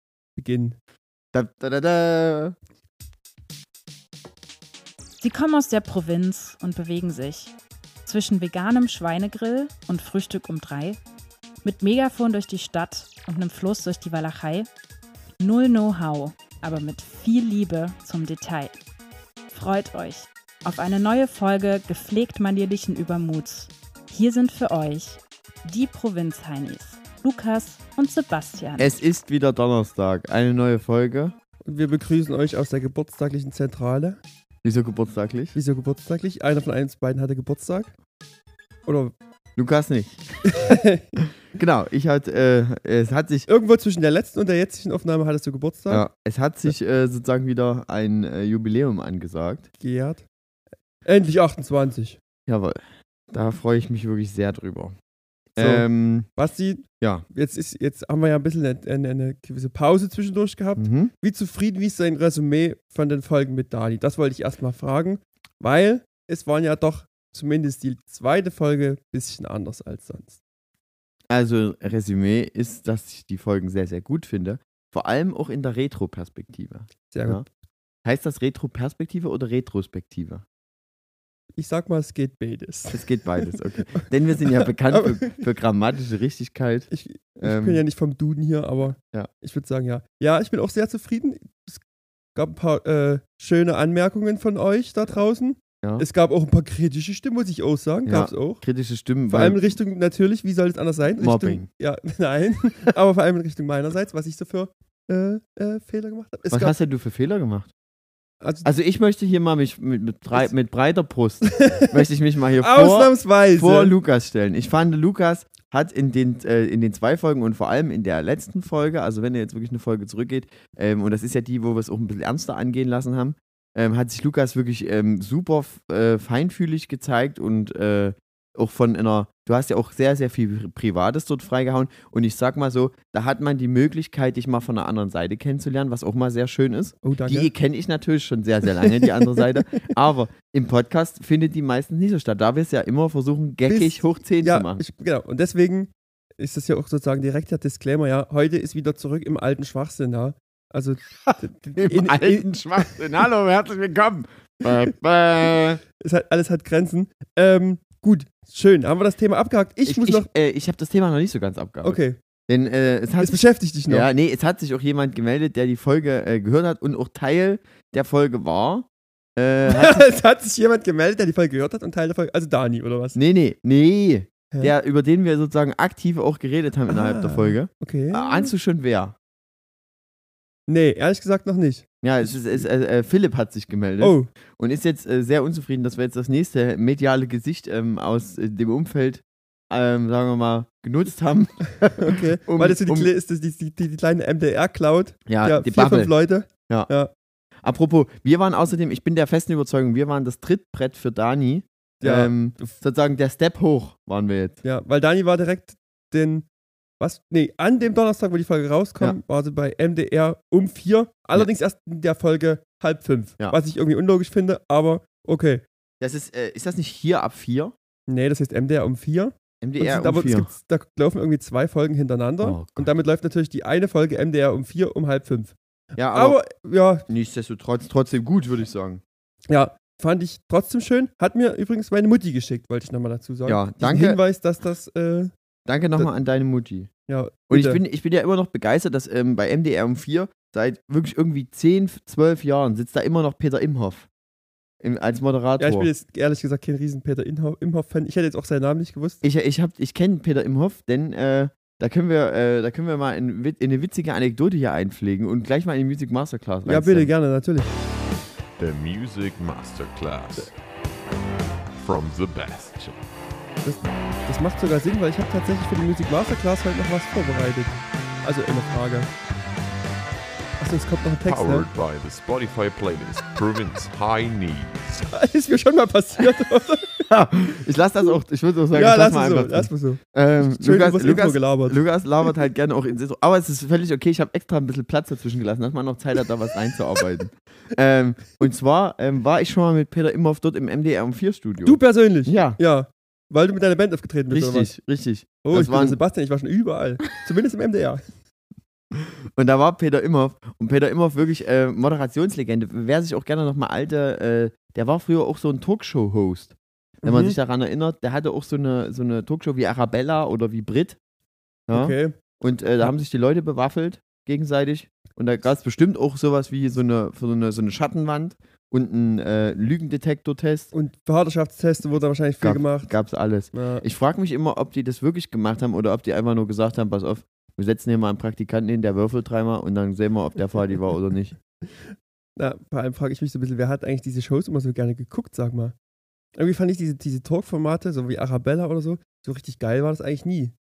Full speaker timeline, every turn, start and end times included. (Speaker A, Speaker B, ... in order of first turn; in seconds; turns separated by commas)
Speaker A: 0.4-0.8, Speaker B: 1.3-2.6, Speaker C: 5.2-7.5, Speaker C: 8.1-11.0, Speaker C: 11.6-14.7, Speaker C: 15.4-18.8, Speaker C: 19.5-28.9, Speaker B: 28.8-31.3, Speaker A: 31.6-34.2, Speaker B: 34.6-35.5, Speaker A: 35.5-37.9, Speaker A: 38.9-39.1, Speaker B: 39.5-40.4, Speaker A: 40.5-41.2, Speaker B: 41.5-43.5, Speaker A: 43.5-46.0, Speaker B: 45.9-49.7, Speaker A: 49.8-50.2, Speaker A: 51.0-52.2, Speaker B: 52.5-52.8, Speaker B: 53.3-55.0, Speaker B: 55.5-56.3, Speaker A: 55.6-70.4, Speaker B: 60.8-61.1, Speaker B: 71.3-77.4, Speaker A: 77.1-77.4, Speaker B: 78.0-80.4, Speaker A: 81.6-85.4, Speaker B: 82.9-86.9, Speaker A: 86.9-91.8, Speaker B: 87.4-87.8, Speaker B: 89.0-89.3, Speaker A: 92.3-98.6, Speaker B: 98.0-99.6, Speaker A: 99.3-106.8, Speaker B: 101.2-101.7, Speaker B: 106.5-107.7, Speaker B: 108.6-144.8, Speaker A: 111.5-111.9, Speaker A: 112.6-113.9, Speaker A: 137.0-137.5, Speaker A: 138.8-139.8, Speaker A: 143.7-153.0, Speaker B: 151.2-155.8, Speaker A: 156.0-160.3, Speaker B: 159.8-170.1, Speaker A: 161.8-162.2, Speaker A: 163.2-164.1, Speaker A: 169.7-173.2, Speaker B: 173.2-179.2, Speaker A: 176.9-178.5, Speaker A: 180.7-182.7, Speaker B: 182.0-193.1, Speaker A: 184.0-184.3, Speaker A: 192.0-197.1, Speaker B: 195.3-196.1, Speaker B: 197.6-204.6, Speaker A: 202.0-202.7, Speaker A: 204.6-206.4, Speaker A: 207.0-215.6, Speaker B: 216.0-217.7, Speaker A: 218.1-225.5, Speaker B: 219.6-220.5, Speaker B: 222.4-222.9, Speaker B: 226.0-226.4, Speaker A: 226.1-227.1, Speaker B: 227.1-229.0, Speaker A: 229.5-235.3, Speaker B: 233.5-234.2, Speaker B: 235.7-236.9, Speaker A: 237.1-237.8, Speaker B: 237.5-244.1, Speaker B: 244.8-245.9, Speaker A: 245.6-249.2, Speaker B: 249.2-257.1, Speaker A: 256.7-257.7, Speaker D: 258.6-260.5, Speaker D: 261.8-263.0, Speaker A: 263.6-269.1, Speaker A: 270.6-271.7, Speaker D: 271.2-275.0, Speaker A: 275.1-277.1, Speaker B: 277.1-292.6, Speaker A: 278.7-281.8, Speaker A: 291.6-294.7, Speaker B: 294.3-296.0, Speaker A: 295.4-298.0, Speaker B: 298.9-311.0, Speaker A: 307.0-307.4, Speaker B: 311.7-320.7, Speaker A: 311.7-312.2, Speaker A: 320.7-322.9, Speaker B: 322.4-331.4, Speaker A: 323.5-323.9, Speaker A: 332.4-335.7, Speaker A: 336.4-340.5